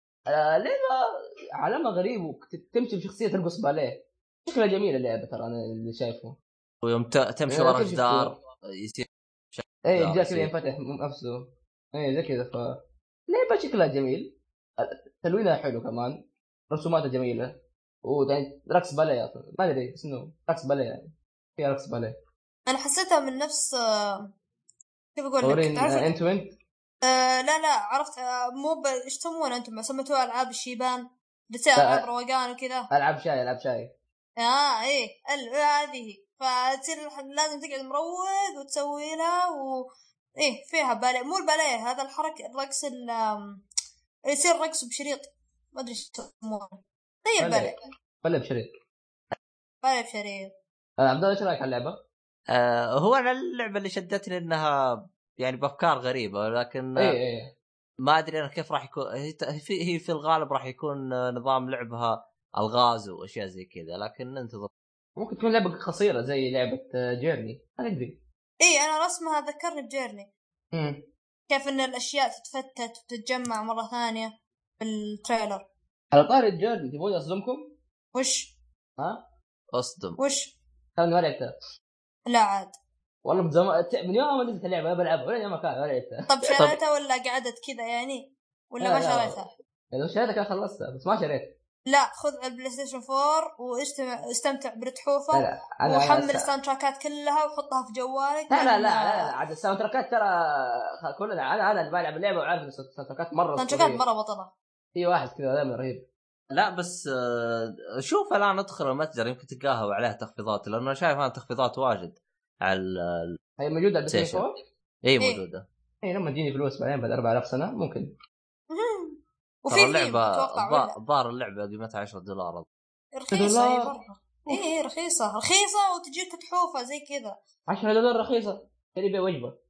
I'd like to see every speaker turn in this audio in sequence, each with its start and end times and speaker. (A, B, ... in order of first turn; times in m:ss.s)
0:00.3-0:06.4 A
0:06.8-0:10.5 B
0:07.5-0:08.4 A
0:09.8-0:16.2 A
0:16.7-0:22.2 A
0:22.7-0:24.3 C
0:25.2-0:26.1 C
0:25.4-0:26.5 A
0:27.0-0:32.9 C
0:31.8-0:32.0 A
0:32.9-0:33.9 A
0:34.4-0:39.9 C
0:40.4-0:43.6 C
0:44.3-0:47.8 C
0:47.4-0:48.7 A
0:49.8-0:50.5 C
0:51.0-0:52.0 A
0:52.5-0:57.2 B
0:57.0-0:57.5 A
0:58.0-1:04.7 B
1:05.2-1:08.2 A
1:08.6-1:10.3 C
1:10.7-1:11.0 A
1:11.5-1:15.6 C
1:16.1-1:17.7 A
1:18.1-1:18.5 C
1:19.0-1:19.2 A
1:19.7-1:20.2 B
1:20.2-1:20.5 C
1:21.0-1:21.5 A
1:22.3-1:22.8 C
1:23.2-1:26.6 A
1:26.3-1:29.5 C
1:28.8-1:31.5 A
1:31.9-1:39.3 C
1:35.3-1:36.5 A
1:38.5-1:44.0 A
1:43.6-1:44.5 C
1:45.0-1:46.1 A
1:46.5-1:53.4 B
1:53.6-1:54.6 A
1:54.1-1:54.4 B
1:55.0-1:55.7 B
1:56.0-1:58.1 A
1:58.7-2:00.9 C
1:59.7-2:02.7 B
2:03.2-2:07.4 C
2:03.3-2:04.7 A
2:07.7-2:09.6 A